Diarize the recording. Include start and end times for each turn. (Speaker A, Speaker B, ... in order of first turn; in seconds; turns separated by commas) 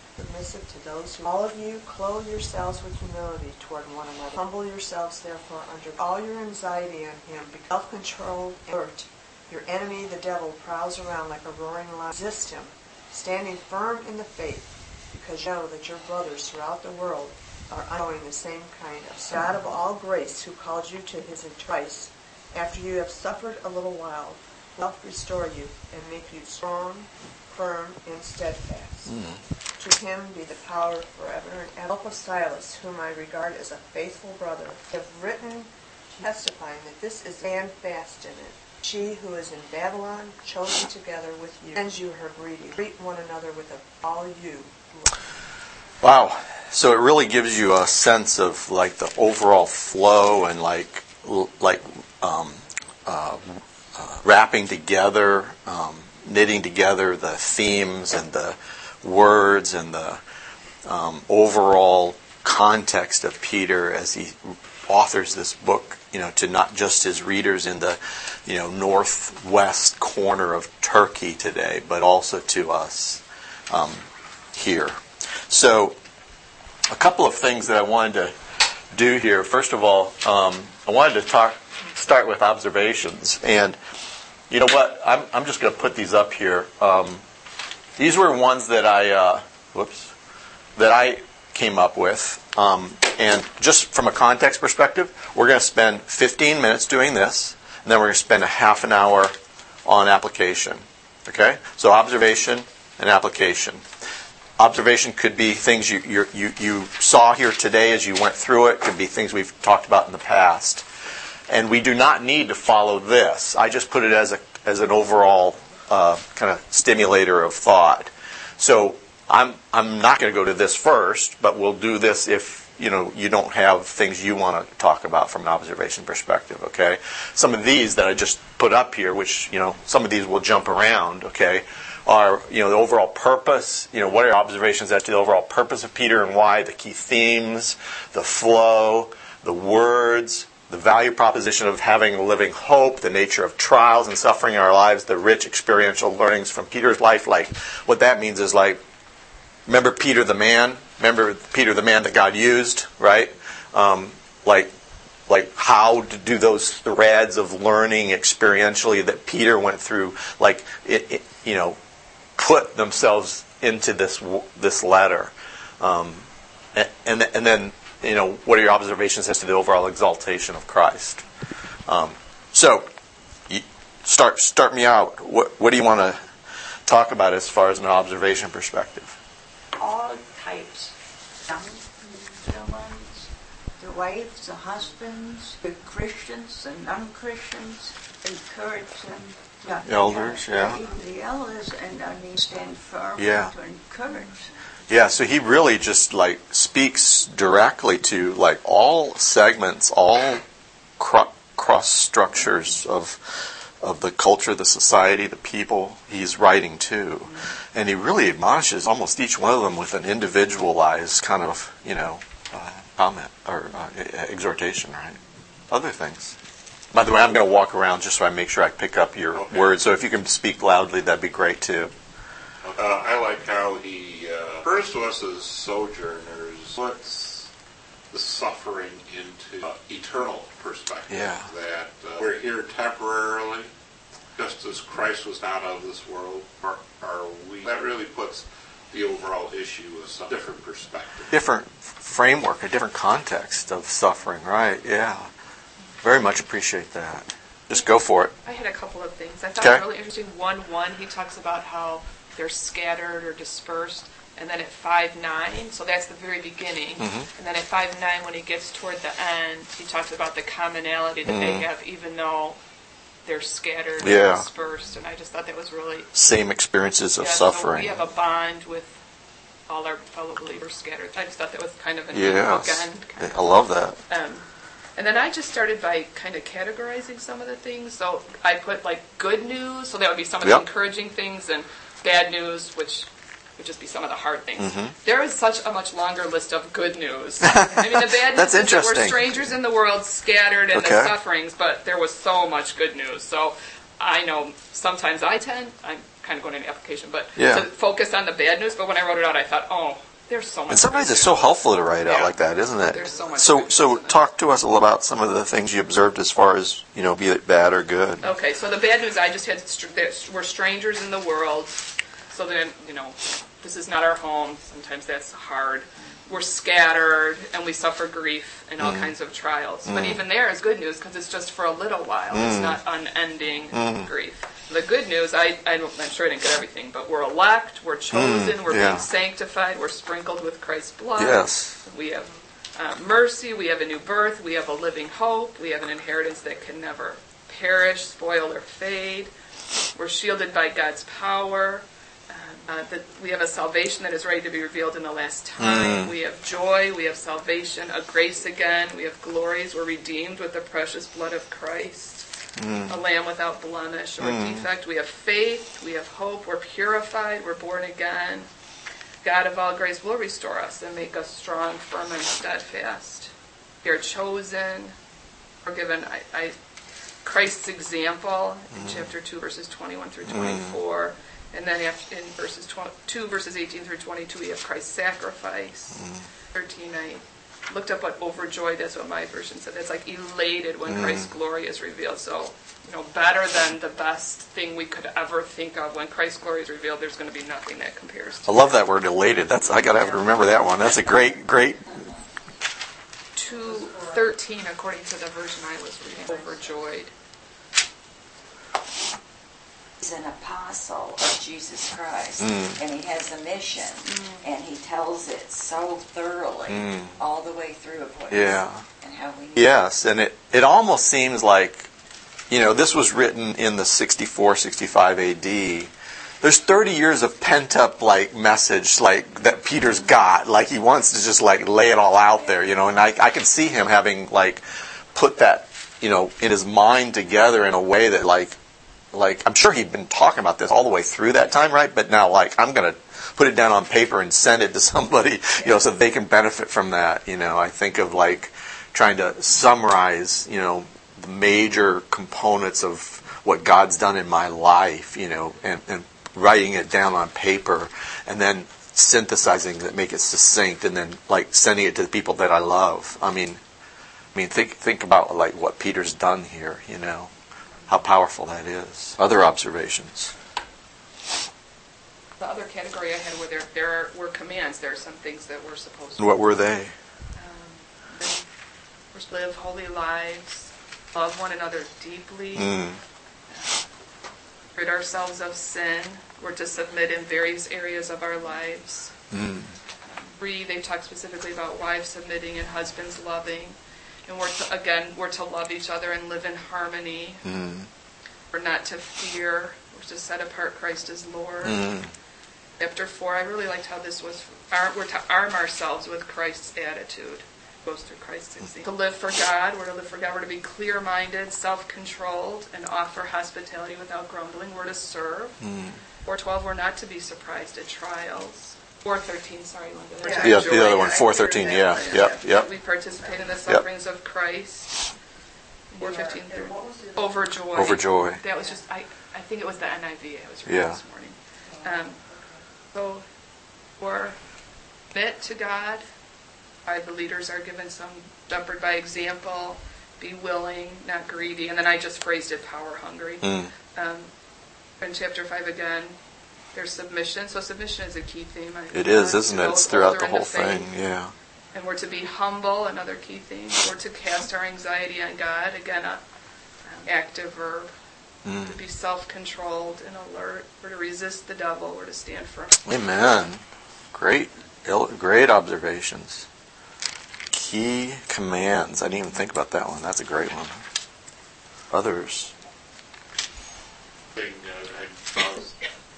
Speaker A: 0.1-29.1, Speaker B: 29.1-29.4, Speaker A: 29.8-45.2, Speaker B: 46.0-60.2, Speaker B: 60.8-75.0, Speaker B: 75.5-76.0, Speaker B: 76.9-78.3, Speaker B: 78.9-83.8, Speaker B: 84.5-87.2, Speaker B: 88.0-90.1, Speaker B: 90.8-99.3, Speaker B: 99.8-103.8, Speaker B: 104.6-110.8, Speaker B: 111.5-148.8, Speaker B: 149.7-154.7, Speaker B: 155.3-161.8, Speaker B: 162.4-171.2, Speaker B: 171.9-172.9, Speaker B: 173.5-176.2, Speaker B: 176.9-179.2, Speaker C: 179.8-180.9, Speaker C: 181.4-194.5, Speaker B: 189.8-190.8, Speaker B: 193.2-193.5, Speaker B: 194.9-200.4, Speaker B: 201.0-215.2, Speaker B: 215.7-216.3, Speaker B: 216.9-221.9, Speaker D: 219.3-219.7, Speaker D: 222.6-227.5, Speaker D: 228.1-233.7, Speaker B: 231.1-231.5, Speaker D: 234.4-241.3, Speaker B: 241.3-245.3, Speaker B: 246.0-248.3, Speaker E: 248.4-262.6, Speaker B: 249.6-249.8, Speaker B: 257.0-257.3, Speaker B: 261.2-261.6, Speaker E: 263.2-266.1, Speaker B: 264.0-264.4, Speaker B: 266.1-268.0, Speaker E: 267.2-268.9, Speaker E: 269.7-301.4, Speaker B: 272.1-274.0, Speaker B: 284.6-284.9, Speaker B: 287.4-289.5, Speaker B: 290.7-291.1, Speaker B: 297.4-297.6, Speaker B: 300.7-308.3, Speaker E: 302.0-304.2, Speaker E: 308.2-339.3, Speaker B: 318.8-319.1, Speaker B: 319.9-320.2, Speaker B: 322.3-322.8, Speaker B: 323.7-324.1, Speaker B: 328.1-329.1, Speaker B: 331.2-331.8, Speaker E: 339.9-352.3, Speaker B: 345.6-346.1, Speaker B: 352.6-353.0, Speaker E: 352.9-358.5, Speaker B: 354.2-354.6, Speaker E: 359.2-363.3, Speaker E: 363.8-364.9, Speaker E: 365.6-366.5, Speaker E: 367.2-376.0, Speaker B: 368.7-369.1, Speaker B: 370.2-370.8, Speaker B: 375.9-376.2, Speaker E: 376.5-388.6, Speaker B: 380.9-381.3, Speaker B: 388.4-392.1, Speaker E: 393.3-397.1, Speaker A: 393.6-394.3, Speaker A: 396.2-396.7, Speaker F: 400.0-409.8, Speaker B: 402.4-402.8, Speaker E: 404.1-404.4, Speaker B: 406.7-407.1, Speaker B: 408.3-408.8, Speaker B: 409.5-411.9, Speaker B: 412.5-415.9, Speaker B: 416.4-424.6, Speaker B: 425.1-428.6, Speaker B: 429.1-453.6, Speaker B: 454.3-457.3, Speaker B: 457.9-460.3, Speaker E: 462.4-466.5, Speaker B: 466.2-466.9, Speaker E: 467.4-468.4, Speaker E: 469.1-472.8, Speaker B: 472.5-473.0, Speaker E: 473.5-473.9, Speaker E: 474.8-479.1, Speaker B: 479.3-479.7, Speaker E: 480.0-487.4, Speaker B: 487.4-487.9, Speaker E: 488.5-491.9, Speaker B: 491.6-492.1, Speaker E: 492.8-505.6, Speaker B: 505.6-506.0, Speaker E: 506.2-515.1, Speaker A: 510.2-512.4, Speaker B: 510.3-512.7, Speaker A: 513.2-513.5, Speaker E: 515.9-522.2, Speaker A: 516.0-517.5, Speaker B: 517.7-518.4, Speaker B: 520.6-521.0, Speaker A: 521.6-522.6, Speaker E: 522.9-523.2, Speaker E: 524.0-524.4, Speaker E: 525.1-526.0, Speaker E: 526.8-534.3, Speaker B: 533.4-533.7, Speaker E: 535.0-536.2, Speaker E: 536.7-540.9, Speaker B: 538.9-541.3, Speaker E: 541.7-546.2, Speaker E: 546.9-547.9, Speaker B: 548.4-548.8, Speaker E: 548.5-552.8, Speaker B: 552.8-553.6, Speaker B: 554.1-556.5, Speaker B: 557.5-560.8, Speaker B: 561.9-562.5, Speaker D: 564.3-565.8